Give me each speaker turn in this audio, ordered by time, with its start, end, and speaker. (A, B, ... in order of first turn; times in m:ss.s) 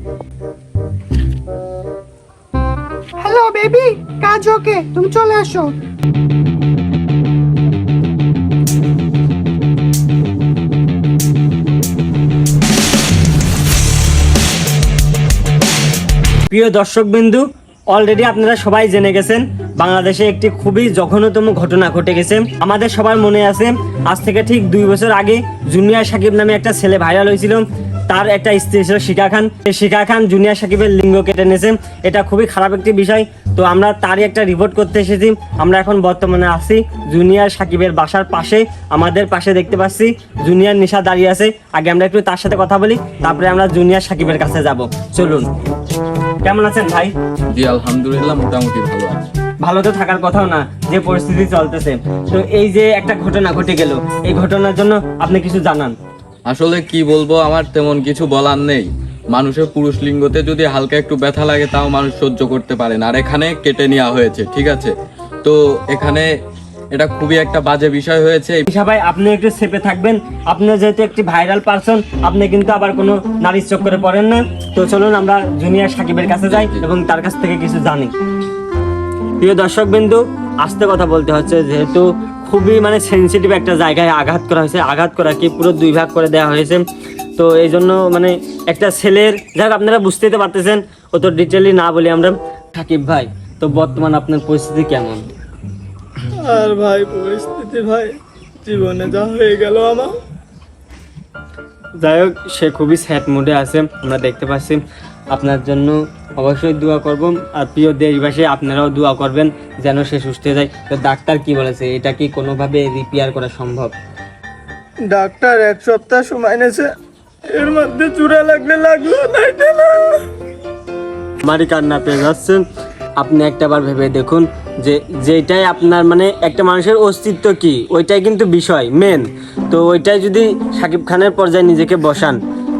0:03.2-0:05.7 A
0:16.5-0:45.5 B
0:46.4-0:47.1 B
0:47.5-0:49.2 C
0:49.6-0:56.0 B
0:56.5-1:04.9 C
1:05.4-1:06.3 C
1:06.9-1:08.6 C
1:08.7-1:18.1 B
1:16.5-1:16.8 C
1:19.4-1:26.8 B
1:27.4-1:35.3 B
1:36.4-1:40.1 D
1:42.0-1:44.8 B
1:45.3-1:54.0 B
1:55.1-1:56.9 D
1:57.5-2:00.2 D
2:01.4-2:02.6 B
2:03.2-2:12.4 B